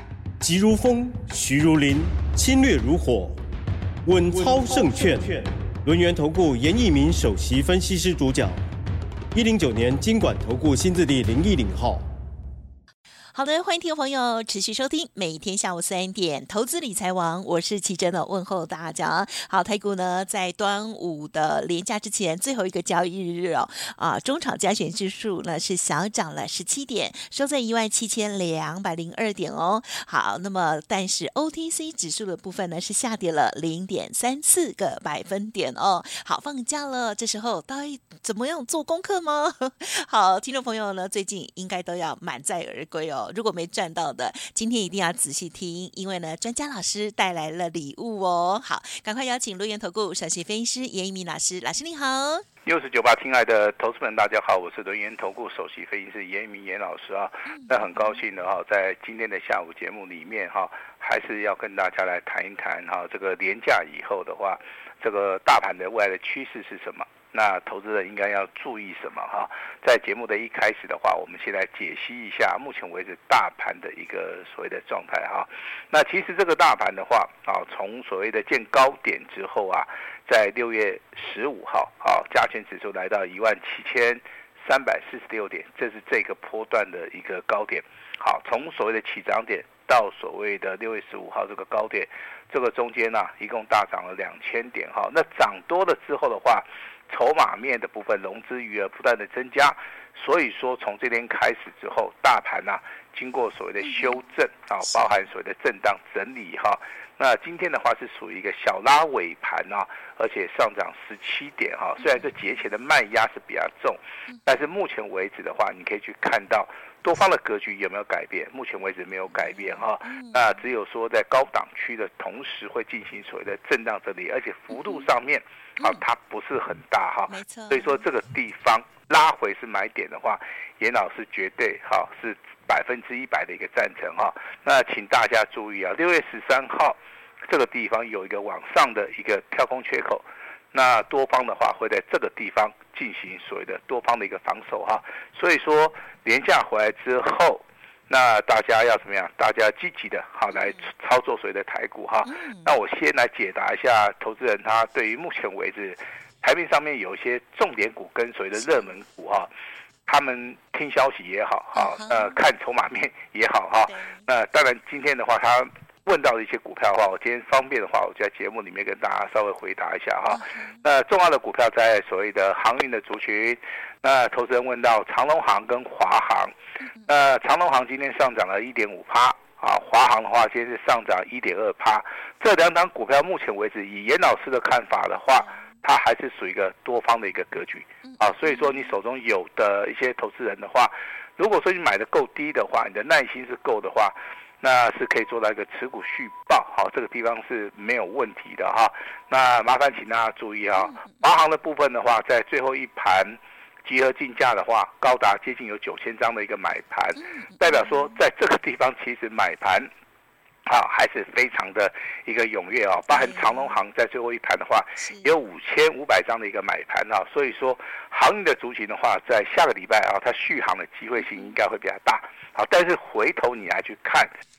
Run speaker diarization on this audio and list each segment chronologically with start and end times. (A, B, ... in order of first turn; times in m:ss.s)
0:00.4-0:03.4 A
0:04.0-0:08.6 A
0:09.3-0:12.1 A
0:13.3-0:52.5 B
0:52.6-2:39.5 C
0:57.5-0:58.2 B
1:43.8-1:44.2 B
1:44.8-1:45.2 B
1:54.3-1:54.6 B
1:59.3-2:00.6 B
2:07.3-2:08.0 B
2:30.5-2:30.8 B
2:32.2-2:32.7 B
2:40.1-2:56.5 C
2:41.8-2:42.4 B
2:43.9-2:44.2 B
2:50.3-2:50.8 B
2:57.1-3:29.9 C
3:05.3-3:05.6 B
3:08.0-3:08.9 B
3:20.8-3:21.2 B
3:27.2-3:28.2 B
3:30.7-3:44.3 C
3:33.1-3:33.8 B
3:35.0-3:35.3 B